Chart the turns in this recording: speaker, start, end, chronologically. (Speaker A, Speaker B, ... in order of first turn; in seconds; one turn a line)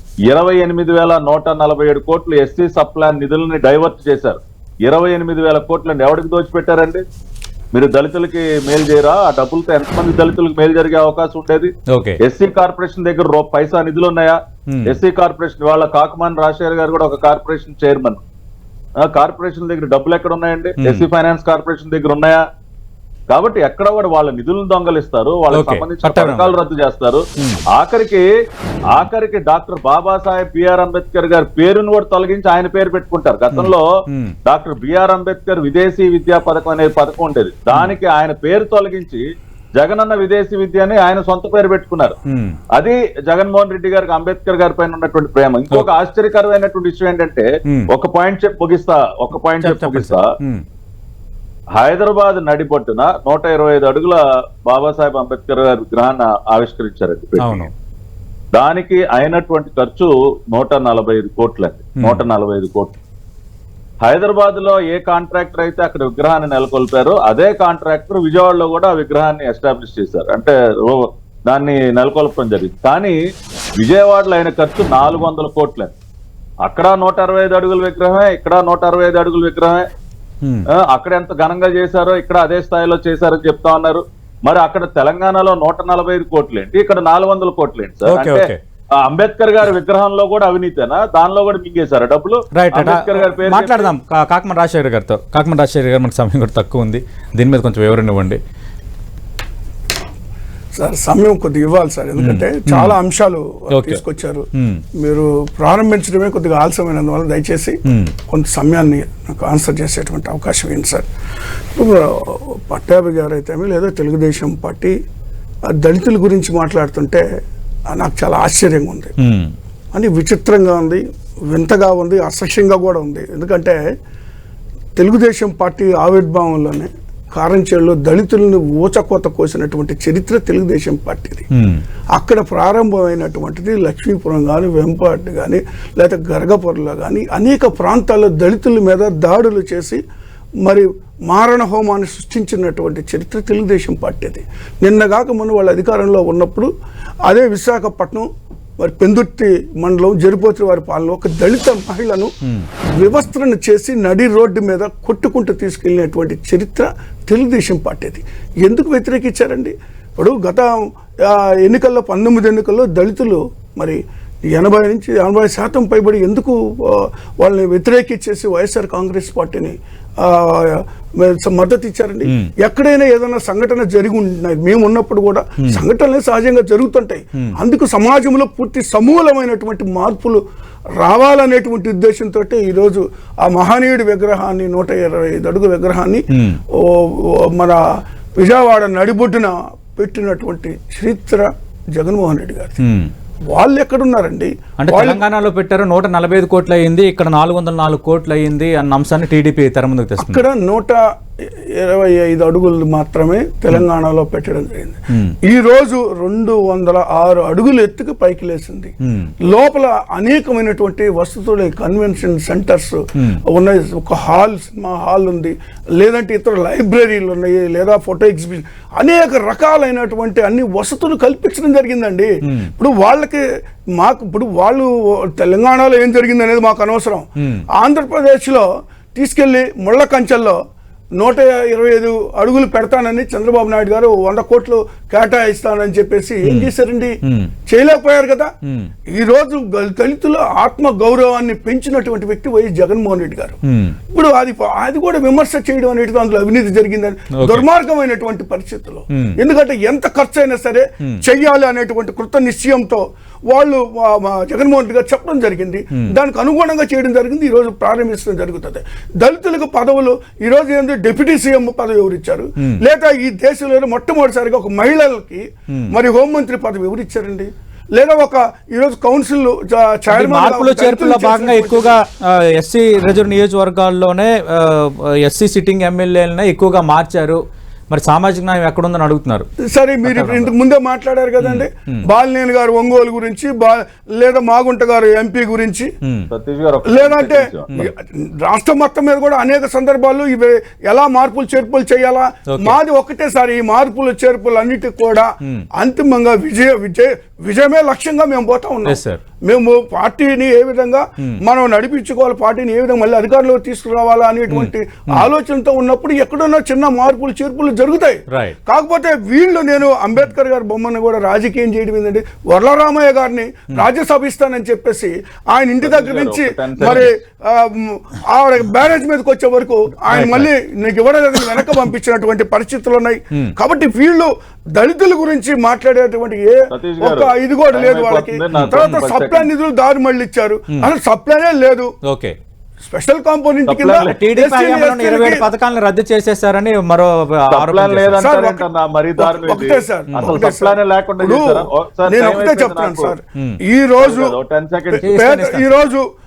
Speaker A: 0.3-7.0
Speaker A: 7.7-18.2
Speaker B: 11.9-12.2
Speaker B: 14.7-15.0
Speaker A: 19.0-22.4
Speaker B: 20.8-21.1
Speaker A: 23.3-28.2
Speaker B: 25.5-26.6
Speaker B: 27.4-27.6
Speaker A: 28.9-33.8
Speaker B: 33.5-34.3
Speaker A: 34.5-39.2
Speaker A: 39.8-42.2
Speaker B: 42.3-42.6
Speaker A: 42.7-50.3
Speaker B: 49.6-50.6
Speaker A: 51.8-57.7
Speaker B: 57.4-57.7
Speaker A: 58.5-63.0
Speaker A: 64.0-73.2
Speaker A: 73.8-75.9
Speaker A: 76.7-79.9
Speaker A: 80.7-93.9
Speaker B: 88.1-88.6
Speaker B: 92.5-98.4
Speaker C: 100.8-104.5
Speaker B: 102.2-103.0
Speaker B: 103.7-104.0
Speaker B: 104.6-104.8
Speaker C: 105.0-111.1
Speaker B: 107.9-108.1
Speaker C: 111.8-114.9
Speaker C: 115.7-117.2
Speaker C: 117.9-119.2
Speaker B: 119.2-119.5
Speaker C: 119.9-123.8
Speaker C: 125.0-131.5
Speaker B: 131.6-131.8
Speaker C: 132.1-140.0
Speaker C: 140.6-146.7
Speaker C: 147.3-148.3
Speaker C: 148.8-152.3
Speaker C: 152.9-180.4
Speaker B: 172.2-172.5
Speaker C: 181.0-187.8
Speaker B: 186.3-186.6
Speaker C: 188.4-192.8
Speaker B: 192.8-193.1
Speaker C: 193.5-195.2
Speaker B: 194.8-200.4
Speaker C: 200.2-208.9
Speaker B: 209.0-209.3
Speaker C: 209.4-223.4
Speaker B: 222.4-222.7
Speaker C: 224.0-230.6
Speaker B: 227.4-227.7
Speaker C: 231.2-238.5
Speaker B: 237.2-237.5
Speaker B: 238.7-238.9
Speaker C: 239.1-243.6
Speaker B: 243.7-244.0
Speaker C: 244.1-272.0
Speaker B: 247.4-247.7
Speaker B: 249.1-249.4
Speaker B: 270.1-279.5
Speaker C: 279.6-285.9
Speaker B: 280.0-280.5
Speaker B: 281.4-282.1
Speaker A: 286.3-287.7
Speaker C: 286.9-331.9
Speaker B: 292.5-292.8
Speaker B: 298.9-299.2
Speaker B: 304.5-305.3
Speaker B: 308.3-308.6
Speaker A: 315.8-317.1
Speaker B: 316.8-317.1
Speaker B: 320.1-320.5
Speaker A: 326.7-329.5
Speaker B: 328.6-329.0
Speaker B: 332.1-332.4
Speaker C: 332.8-335.5
Speaker A: 333.7-334.2
Speaker B: 334.1-338.3
Speaker A: 337.5-343.1
Speaker C: 338.2-344.4
Speaker B: 340.1-340.4
Speaker A: 344.0-345.1
Speaker C: 344.9-346.1
Speaker B: 345.0-345.7